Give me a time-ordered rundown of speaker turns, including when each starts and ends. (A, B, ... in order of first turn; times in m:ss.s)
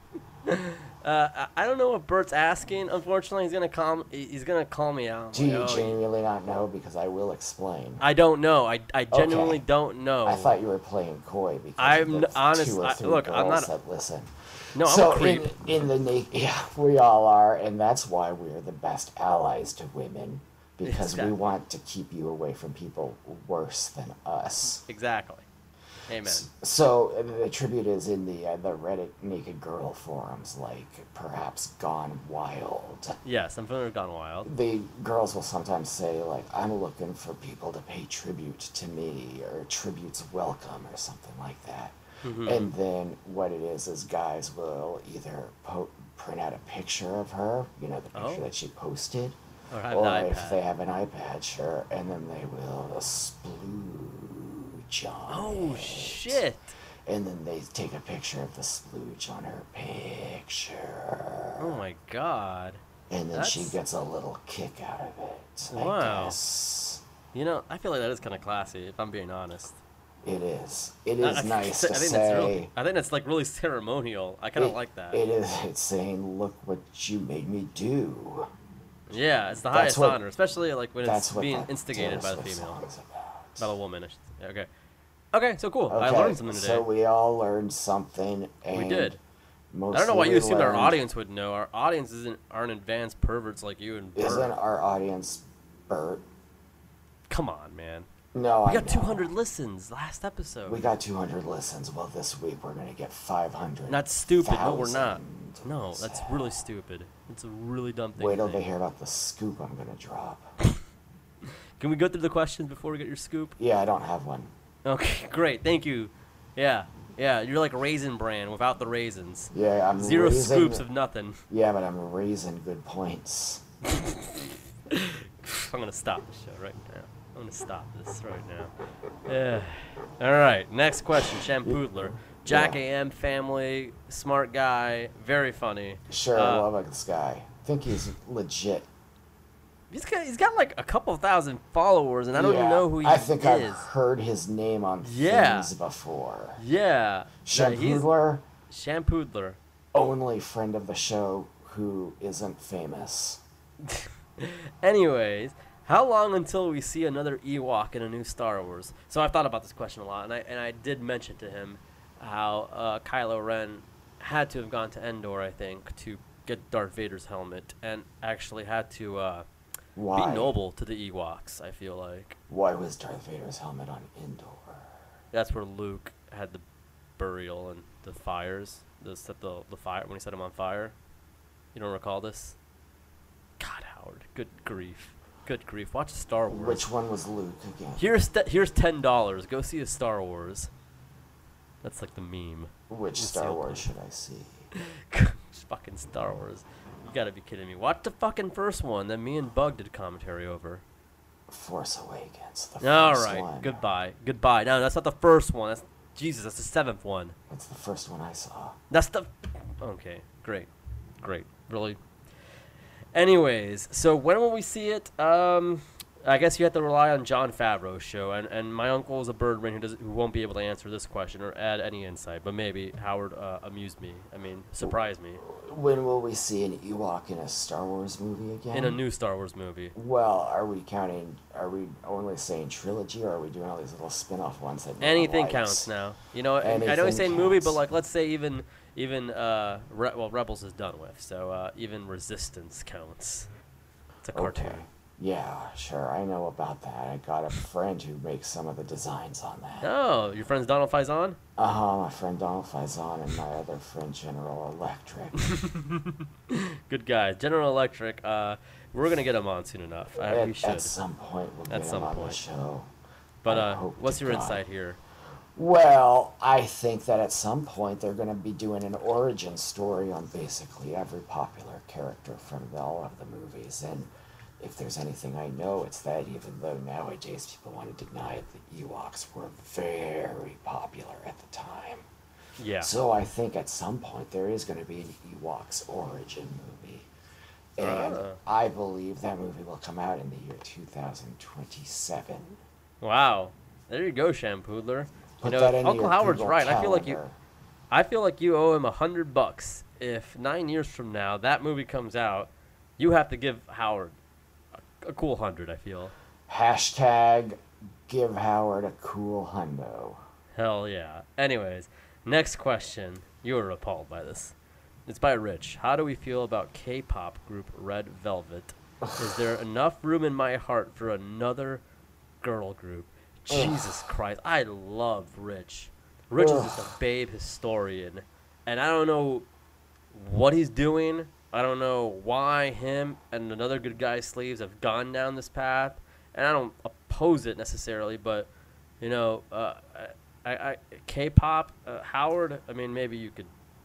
0:00.4-0:06.0 A
0:05.3-0:08.0 B
0:08.0-0:10.6 A
0:09.1-0:09.6 B
0:10.2-0:24.8 B
0:11.8-0:13.7 A
0:14.7-0:15.5 A
0:20.8-0:21.4 A
0:24.8-0:25.4 A
0:26.1-0:26.4 A
0:26.2-0:33.2 B
0:33.2-0:34.5 A
0:34.4-0:49.4 B
0:42.2-0:42.7 A
0:48.1-0:48.5 A
0:49.7-0:50.6 A
0:49.9-0:56.4 B
0:55.3-0:56.7 A
0:57.0-1:01.8 B
1:01.6-1:02.8 A
1:03.1-1:07.0 B
1:03.3-1:03.8 A
1:05.7-1:06.4 A
1:07.3-1:09.8 A
1:10.2-1:12.7 B
1:11.2-1:15.2 A
1:14.6-1:18.5 B
1:19.1-1:22.8 A
1:19.7-1:20.2 B
1:21.0-1:23.7 B
1:23.6-1:24.7 A
1:25.3-1:26.8 A
1:25.9-1:29.2 B
1:28.7-1:29.2 A
1:29.7-1:31.0 B
1:29.9-1:34.5 A
1:34.1-1:36.2 B
1:37.3-1:38.1 A
1:38.3-1:39.3 B
1:38.6-1:40.9 A
1:40.6-1:46.6 B
1:43.9-1:48.6 A
1:48.2-1:50.5 B
1:51.8-1:53.6 A
1:53.6-1:54.5 B
1:54.8-2:01.4 A
1:59.5-2:00.8 B
2:01.5-2:03.6 B
2:03.9-2:08.7 A
2:09.2-2:16.7 A
2:11.6-2:12.8 B
2:16.1-2:18.9 B
2:19.9-2:23.9 A
2:22.3-2:26.6 B
2:25.0-2:25.7 A
2:26.6-2:28.1 A
2:27.4-2:28.4 B
2:28.7-2:29.6 A
2:29.9-2:33.4 B
2:33.8-2:49.4 A
2:50.0-2:50.5 B
2:50.1-2:52.4 A
2:52.5-2:54.9 B
2:55.3-2:56.6 A
2:57.2-3:00.9 A
3:01.7-3:02.6 A
3:03.6-3:06.8 A
3:06.5-3:08.1 B
3:08.0-3:10.7 A
3:11.8-3:13.8 A
3:12.9-3:14.7 B
3:14.7-3:20.8 A
3:21.5-3:23.8 B
3:22.8-3:27.3 A
3:27.5-3:28.8 B
3:28.9-3:30.7 A
3:31.2-3:32.0 A
3:33.1-3:45.4 A
3:44.8-3:49.0 B
3:48.7-3:49.9 A
3:49.9-3:55.9 B
3:55.0-4:03.5 A
3:56.6-3:57.8 B
4:04.2-4:04.8 A
4:04.3-4:09.9 B
4:09.8-4:11.4 A
4:11.6-4:15.4 B
4:15.4-4:20.9 A
4:20.2-4:22.9 B
4:21.7-4:22.4 A
4:23.4-4:25.0 A
4:23.4-4:24.6 B
4:25.5-4:42.0 B
4:42.6-4:42.9 A
4:42.8-4:47.1 B
4:47.8-4:52.6 B
4:47.8-4:48.4 A
4:53.0-4:57.2 A
4:55.4-4:57.4 B
4:57.9-5:04.1 A
5:05.0-5:06.1 A
5:06.5-5:10.2 B
5:10.5-5:14.5 A
5:15.1-5:21.8 A
5:22.4-5:29.4 A
5:23.5-5:24.1 B
5:26.4-5:26.9 B
5:30.1-5:38.5 A
5:39.0-5:43.5 A